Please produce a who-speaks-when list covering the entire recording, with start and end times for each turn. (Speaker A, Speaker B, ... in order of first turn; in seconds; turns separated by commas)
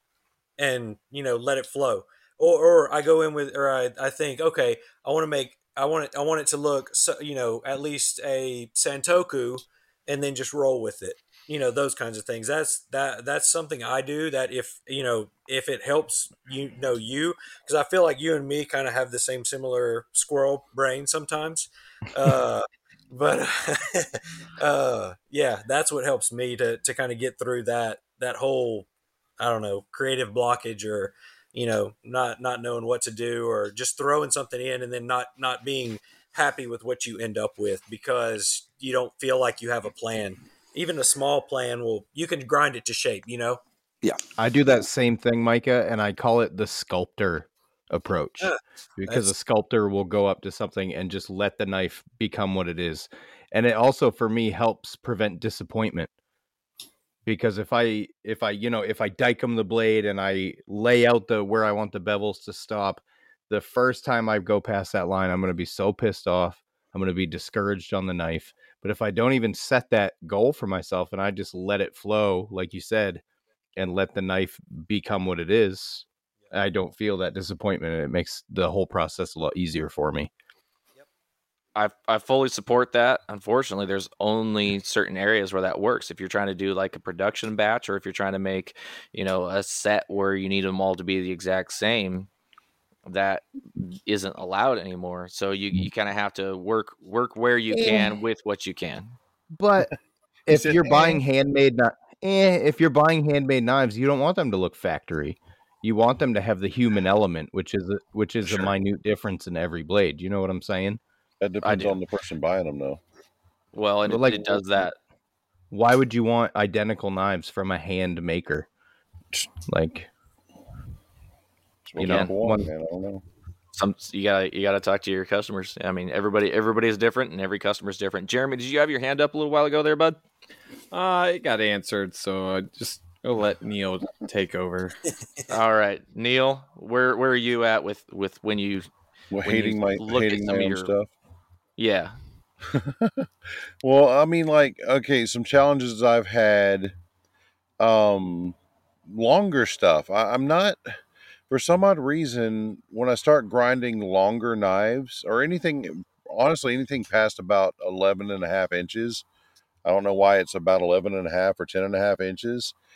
Speaker A: 0.6-28.9, Speaker A: 29.4-43.6, Speaker B: 44.4-56.1, Speaker A: 48.4-49.3, Speaker B: 57.3-73.2, Speaker B: 73.8-80.3, Speaker C: 81.8-92.3, Speaker C: 93.1-99.2, Speaker B: 97.7-98.1, Speaker B: 99.5-99.9, Speaker B: 100.5-111.0, Speaker D: 100.5-101.2, Speaker D: 108.5-108.7, Speaker D: 111.4-113.0, Speaker C: 111.6-112.0, Speaker C: 113.7-115.0, Speaker B: 114.1-114.7, Speaker B: 115.7-118.7, Speaker B: 119.7-120.1, Speaker D: 121.8-123.2, Speaker B: 122.0-122.7, Speaker C: 122.0-122.3, Speaker C: 123.8-130.2, Speaker E: 130.9-135.0, Speaker C: 135.5-138.9, Speaker D: 139.3-141.1, Speaker C: 139.4-140.9, Speaker C: 141.8-142.2, Speaker D: 142.7-143.2, Speaker D: 143.8-146.9, Speaker D: 147.8-148.6, Speaker D: 149.1-150.8, Speaker D: 151.5-159.2, Speaker D: 159.8-162.8